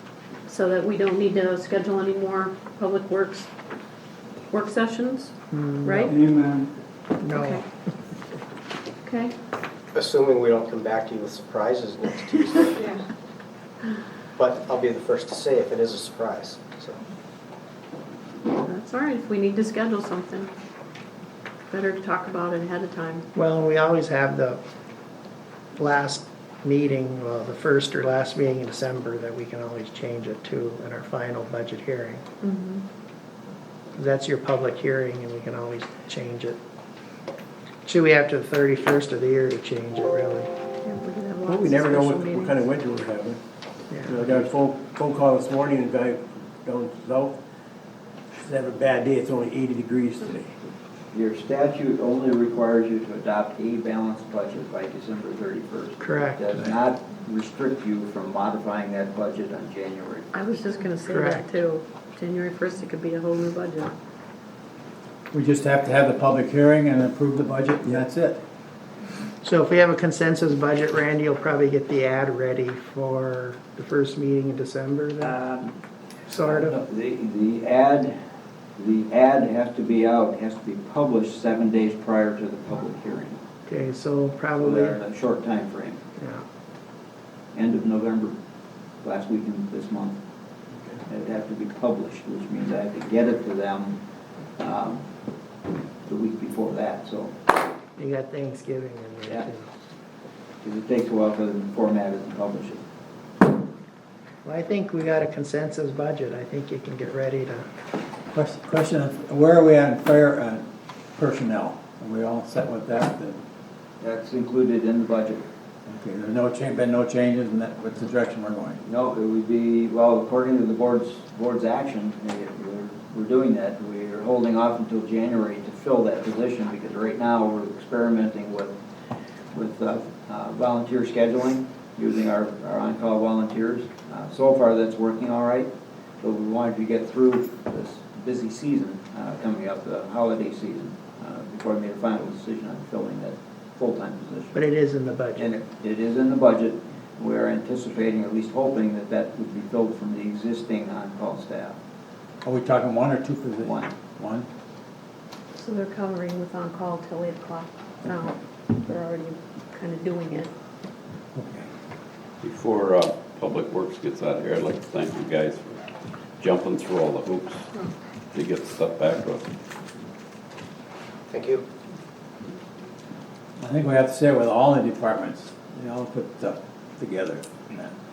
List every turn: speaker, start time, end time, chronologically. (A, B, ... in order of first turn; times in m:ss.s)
0:00.5-0:03.5 A
0:04.5-0:05.3 A
0:05.5-0:06.2 B
0:05.8-0:06.2 A
0:06.1-0:06.7 C
0:07.2-0:07.6 B
0:07.3-0:07.6 A
0:09.0-0:09.3 A
0:09.9-0:12.9 D
0:12.6-0:13.0 A
0:14.4-0:17.0 D
0:18.5-0:20.5 A
0:21.7-0:23.2 A
0:23.3-0:24.6 B
0:25.8-0:32.2 B
0:32.4-0:32.8 A
0:34.0-0:36.6 B
0:37.8-0:40.5 B
0:40.8-0:42.6 A
0:41.4-0:43.4 E
0:43.9-0:44.2 B
0:44.0-0:47.4 E
0:48.3-0:50.6 E
0:51.1-1:00.3 F
0:56.0-0:56.4 B
1:00.3-1:03.9 A
1:01.1-1:01.5 B
1:05.3-1:08.4 C
1:09.4-1:15.4 B
1:15.2-1:15.7 F
1:16.3-1:16.8 B
1:16.4-1:18.2 F
1:18.8-1:23.4 F
1:23.7-1:25.0 B
1:24.6-1:26.0 F
1:26.2-1:26.4 B
1:27.5-1:28.3 F
1:29.0-1:30.2 F
1:31.1-1:34.0 F
1:34.6-1:35.0 F
1:36.1-1:37.4 F
1:38.0-1:39.7 B
1:40.6-1:42.8 F
1:44.4-1:47.7 B
1:48.3-1:50.6 C
1:51.2-1:53.4 C
1:54.0-1:55.4 F
1:55.9-1:58.8 C
1:58.8-2:08.8 F
2:09.5-2:15.7 F
2:16.2-2:24.6 F
2:24.5-2:25.5 B
2:25.4-2:31.8 F
2:32.4-2:34.5 C
2:33.6-2:33.9 F
2:35.6-2:40.5 A
2:41.4-2:41.7 C
2:42.4-2:45.8 G
2:46.4-2:47.7 G
2:48.3-2:49.5 G
2:51.3-2:51.6 D
2:53.6-2:57.9 C